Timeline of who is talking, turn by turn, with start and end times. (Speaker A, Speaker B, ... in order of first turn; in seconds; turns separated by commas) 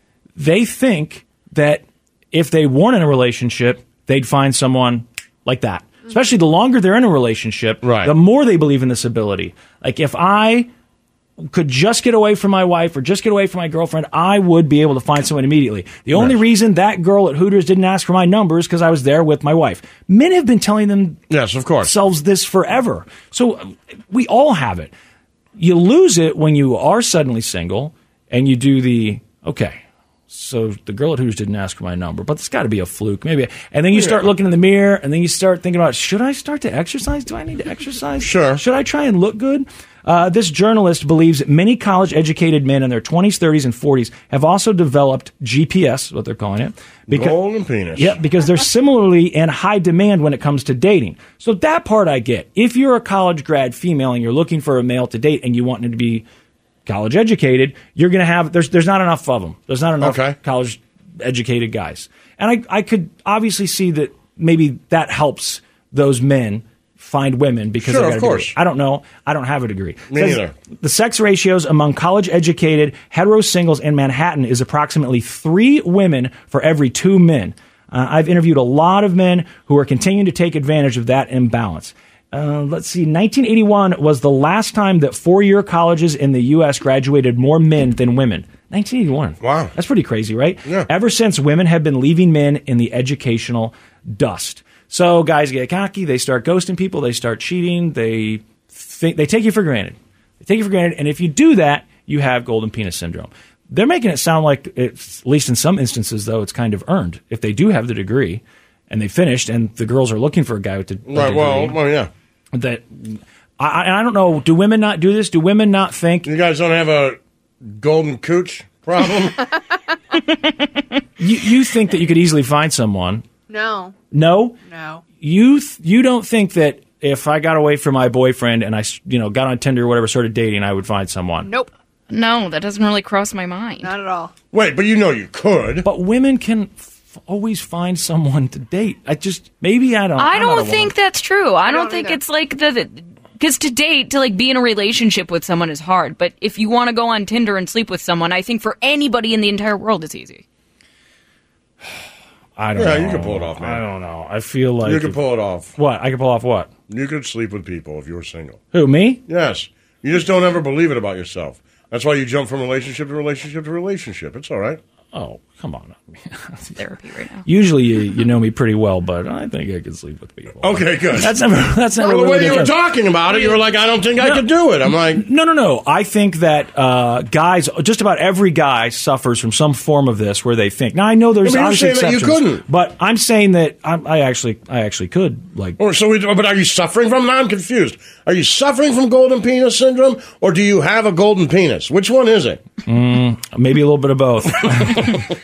Speaker A: 0.3-10.7, Speaker B: 7.8-8.1, Speaker A: 11.4-21.2, Speaker B: 21.3-21.9, Speaker A: 21.8-24.9, Speaker A: 25.6-47.4, Speaker B: 33.9-34.2, Speaker B: 38.2-38.6, Speaker B: 47.1-48.1, Speaker A: 47.9-56.2, Speaker A: 56.9-111.8, Speaker B: 60.0-60.4, Speaker B: 67.8-68.5, Speaker B: 70.1-70.5, Speaker B: 89.4-89.7, Speaker B: 111.1-112.1, Speaker A: 112.5-116.3, Speaker B: 116.2-117.2, Speaker B: 117.7-119.5, Speaker A: 121.2-123.2, Speaker C: 123.5-123.9, Speaker A: 124.1-124.6, Speaker C: 124.6-125.0, Speaker A: 125.2-131.5, Speaker C: 131.4-131.7, Speaker D: 132.1-133.9, Speaker C: 133.8-134.3, Speaker B: 134.5-135.8, Speaker A: 135.8-140.9, Speaker D: 140.2-150.4, Speaker C: 141.6-142.2, Speaker A: 152.6-155.2, Speaker B: 152.7-153.8, Speaker B: 154.8-155.7, Speaker A: 155.7-156.7, Speaker B: 156.9-158.6, Speaker A: 158.7-159.2, Speaker B: 159.3-164.8, Speaker A: 165.1-166.8, Speaker D: 166.8-167.4, Speaker A: 167.4-172.7, Speaker B: 170.6-171.3, Speaker B: 172.0-175.2, Speaker A: 174.2-185.8, Speaker B: 181.4-182.6, Speaker B: 185.8-192.6, Speaker A: 192.8-195.2